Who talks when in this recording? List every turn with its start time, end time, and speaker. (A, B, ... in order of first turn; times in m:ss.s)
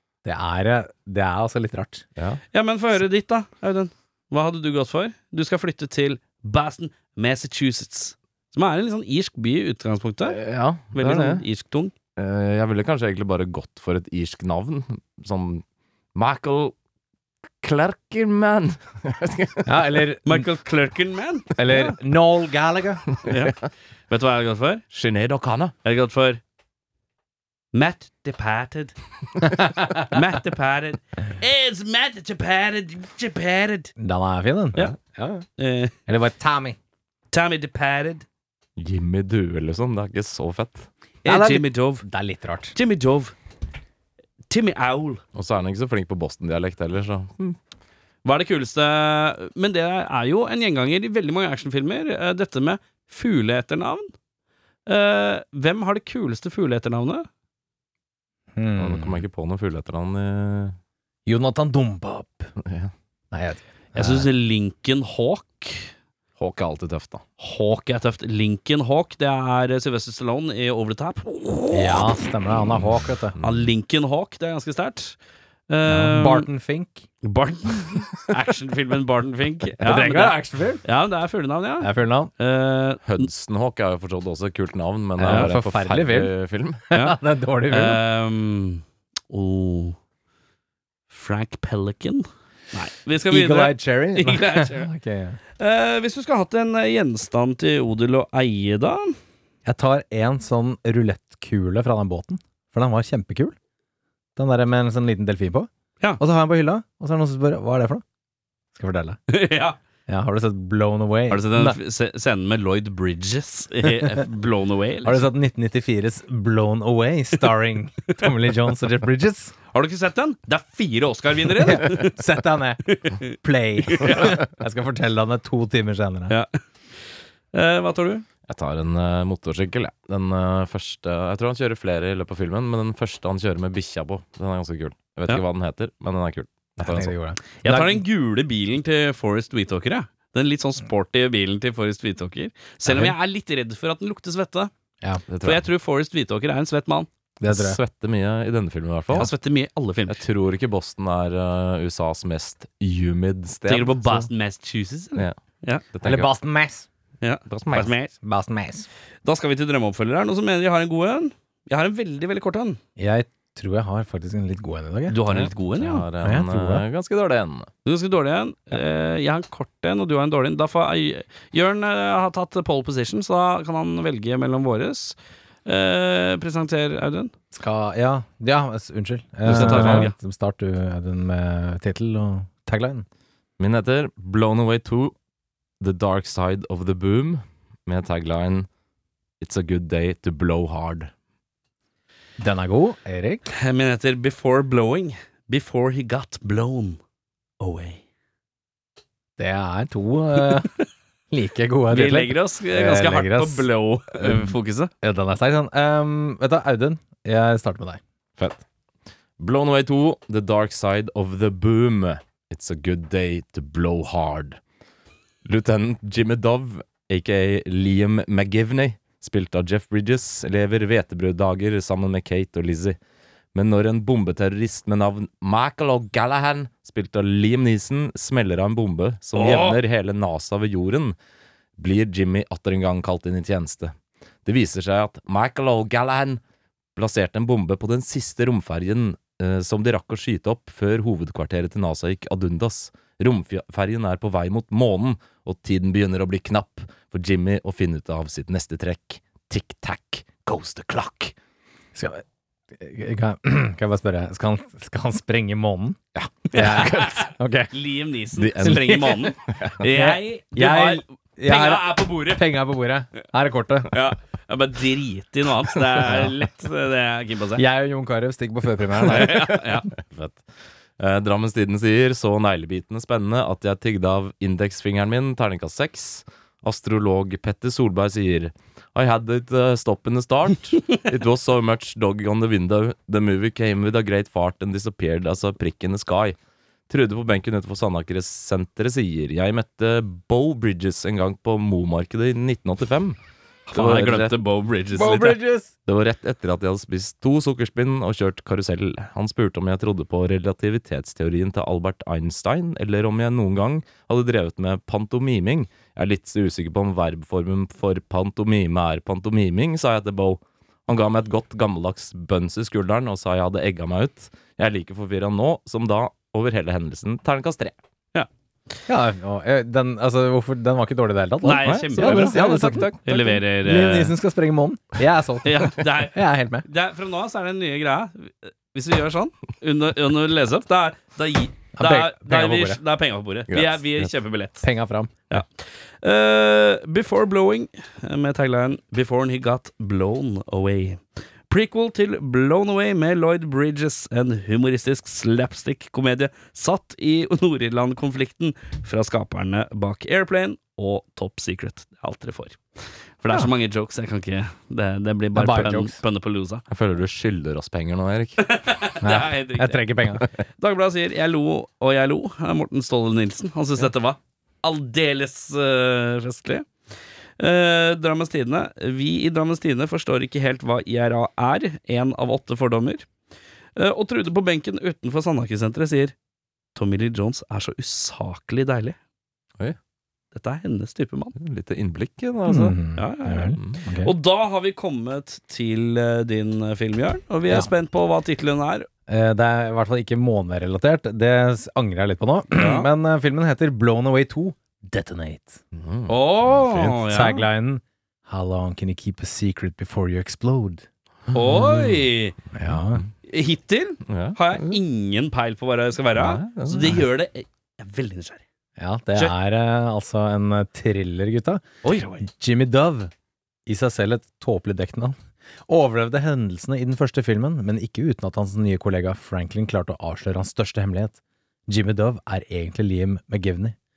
0:00.2-0:02.0 A
0:02.2-0:02.4 B
0:02.5-0:10.4 C
0:10.2-0:11.4 B
0:10.9-0:11.9 C
0:12.2-0:15.6 B
0:16.1-0:16.7 B
0:17.6-0:20.0 B
0:19.6-0:20.5 A
0:20.2-0:21.9 C
0:21.6-0:23.1 A
0:23.2-0:23.6 C
0:24.1-0:24.8 C
0:24.9-0:25.7 B
0:25.8-0:26.4 C
0:27.7-0:29.0 C
0:29.8-0:33.9 C
0:34.0-0:35.4 A
0:35.6-0:35.9 C
0:36.1-0:36.8 A
0:37.3-0:38.2 C
0:38.8-0:40.9 B
0:41.2-0:42.0 C
0:41.2-0:42.7 A
0:42.7-0:43.3 C
0:44.5-0:45.2 C
0:45.3-0:47.6 B
0:48.2-0:54.1 C
0:54.9-0:57.3 C
0:58.5-0:59.2 A
0:58.8-1:00.8 B
1:01.2-1:02.5 A
1:02.6-1:02.9 B
1:03.3-1:04.3 A
1:03.9-1:05.9 C
1:06.4-1:07.2 B
1:07.4-1:12.2 C
1:11.7-1:13.4 A
1:13.4-1:13.7 B
1:13.4-1:15.2 C
1:15.7-1:16.5 C
1:15.9-1:17.0 A
1:17.2-1:23.3 C
1:19.8-1:20.8 A
1:21.8-1:22.3 A
1:23.0-1:26.8 B
1:25.2-1:26.3 A
1:26.9-1:28.0 A
1:26.9-1:27.2 C
1:27.7-1:30.0 C
1:31.1-1:34.9 C
1:33.3-1:35.4 A
1:35.6-1:39.2 C
1:39.6-1:43.5 A
1:44.4-1:48.0 A
1:48.7-1:49.2 A
1:49.3-1:49.8 C
1:50.1-1:51.8 A
1:51.3-1:55.2 C
1:53.8-1:54.2 A
1:55.0-1:59.5 A
1:59.7-2:02.1 C
2:01.6-2:06.3 A
2:02.9-2:03.3 C
2:03.9-2:04.4 C
2:06.3-2:06.6 C
2:07.5-2:08.2 C
2:08.5-2:17.1 B
2:16.8-2:18.0 A
2:17.6-2:24.7 C
2:22.8-2:23.1 A
2:25.3-2:25.6 B
2:25.4-2:27.1 C
2:27.4-2:27.8 A
2:27.4-2:29.3 B
2:29.1-2:30.2 C
2:30.1-2:34.2 B
2:33.7-2:35.8 C
2:35.9-2:36.3 B
2:36.0-2:36.9 A
2:37.2-2:38.1 C
2:37.5-2:37.9 B
2:37.7-2:38.9 A
2:39.2-2:42.8 C
2:43.0-2:45.2 A
2:45.1-2:46.0 C
2:45.3-2:47.7 B
2:46.2-2:46.8 A
2:47.8-2:57.3 C
2:57.5-3:03.0 A
2:59.4-3:00.1 C
2:59.5-3:00.1 B
3:03.6-3:05.1 B
3:05.8-3:08.7 B
3:09.4-3:11.1 B
3:12.4-3:13.4 A
3:13.5-3:17.0 C
3:17.6-3:18.0 C
3:19.4-3:20.7 A
3:21.3-3:23.7 A
3:21.9-3:24.9 C
3:24.2-3:24.5 A
3:25.0-3:28.0 A
3:28.4-3:28.6 B
3:29.4-3:34.6 B
3:35.4-3:43.0 B
3:43.5-3:51.2 B
3:49.3-3:49.8 C
3:51.8-3:53.9 B
3:54.4-3:56.4 B
3:57.0-4:11.3 B
4:11.9-4:16.0 A
4:16.1-4:17.2 B
4:16.5-4:22.4 C
4:16.5-4:17.7 A
4:18.4-4:19.8 B
4:18.6-4:19.2 A
4:19.8-4:24.0 A
4:23.9-4:27.6 C
4:26.0-4:26.3 A
4:27.6-4:29.6 A
4:29.0-4:29.9 C
4:29.9-4:30.4 B
4:31.0-4:46.4 B
4:46.9-4:53.2 B
4:53.7-4:55.4 C
4:53.7-4:54.4 B
4:54.9-4:55.7 A
4:55.8-5:17.7 B
5:18.9-5:22.9 A
5:21.4-5:22.4 C
5:21.6-5:23.4 B
5:23.0-5:24.1 C
5:23.6-5:26.6 A
5:25.4-5:34.6 C
5:31.7-5:32.8 A
5:33.5-5:34.1 B
5:34.6-5:35.2 A
5:35.3-5:56.6 C
5:55.3-5:56.0 A
5:56.7-5:58.4 B
5:58.4-6:06.7 C
5:59.0-6:00.2 A
6:07.4-6:13.1 C
6:13.8-6:16.1 C
6:16.7-6:19.0 C
6:20.3-6:21.3 C
6:21.4-6:22.8 B
6:22.5-6:24.1 A
6:23.0-6:28.9 C
6:29.1-6:35.6 A
6:32.5-6:32.9 C
6:35.7-6:36.1 B
6:36.1-6:37.4 C
6:36.7-6:40.8 A
6:41.3-6:42.4 C
6:42.5-6:43.0 A
6:43.2-6:48.4 C
6:44.1-6:44.8 B
6:46.1-6:47.0 B
6:48.8-6:51.6 A
6:51.8-6:52.2 C
6:52.2-6:53.1 A
6:53.6-6:55.2 A
6:55.7-7:03.8 A